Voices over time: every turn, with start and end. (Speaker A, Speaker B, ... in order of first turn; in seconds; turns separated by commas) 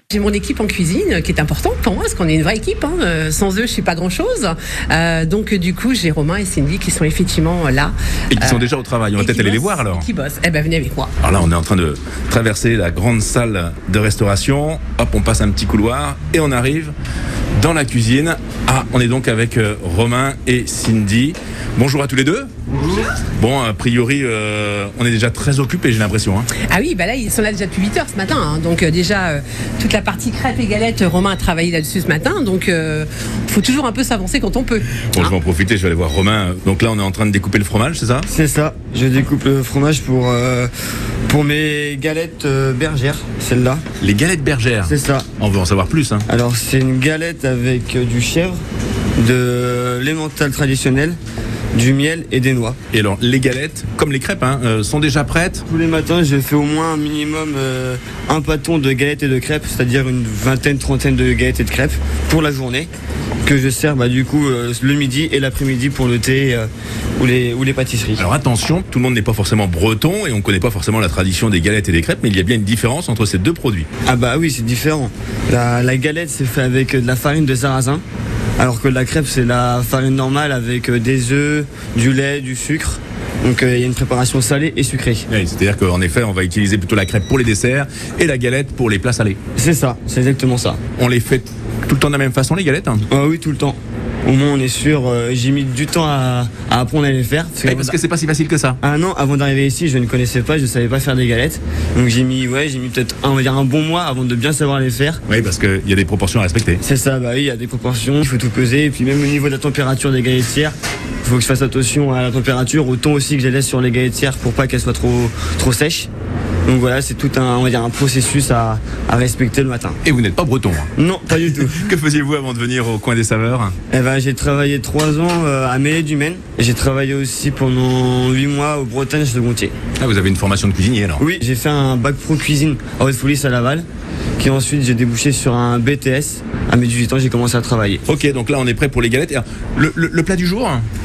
Speaker A: 0.1-11.1, Speaker B: 8.3-10.1, Speaker B: 11.2-16.9, Speaker B: 17.6-22.5, Speaker B: 23.4-26.5, Speaker A: 26.5-35.3, Speaker B: 35.0-38.3, Speaker C: 38.3-40.7, Speaker C: 41.3-43.8, Speaker B: 44.0-46.3, Speaker C: 44.8-45.3, Speaker C: 46.3-48.6, Speaker C: 49.2-51.2, Speaker C: 51.7-52.8, Speaker B: 52.9-55.6, Speaker C: 55.7-62.9, Speaker C: 63.4-68.2, Speaker B: 68.2-73.9, Speaker C: 74.1-78.0, Speaker C: 78.6-85.3, Speaker B: 85.3-89.4, Speaker C: 89.6-90.8, Speaker B: 91.0-93.0, Speaker C: 93.1-98.0, Speaker B: 97.7-98.8, Speaker C: 98.8-105.2, Speaker B: 105.3-106.8, Speaker C: 106.8-116.1, Speaker C: 116.7-120.0, Speaker B: 120.0-120.9, Speaker C: 121.0-121.8, Speaker B: 121.8-123.8, Speaker C: 123.9-129.7, Speaker B: 130.0-131.2, Speaker C: 131.2-133.9, Speaker C: 134.4-138.0, Speaker B: 138.1-140.9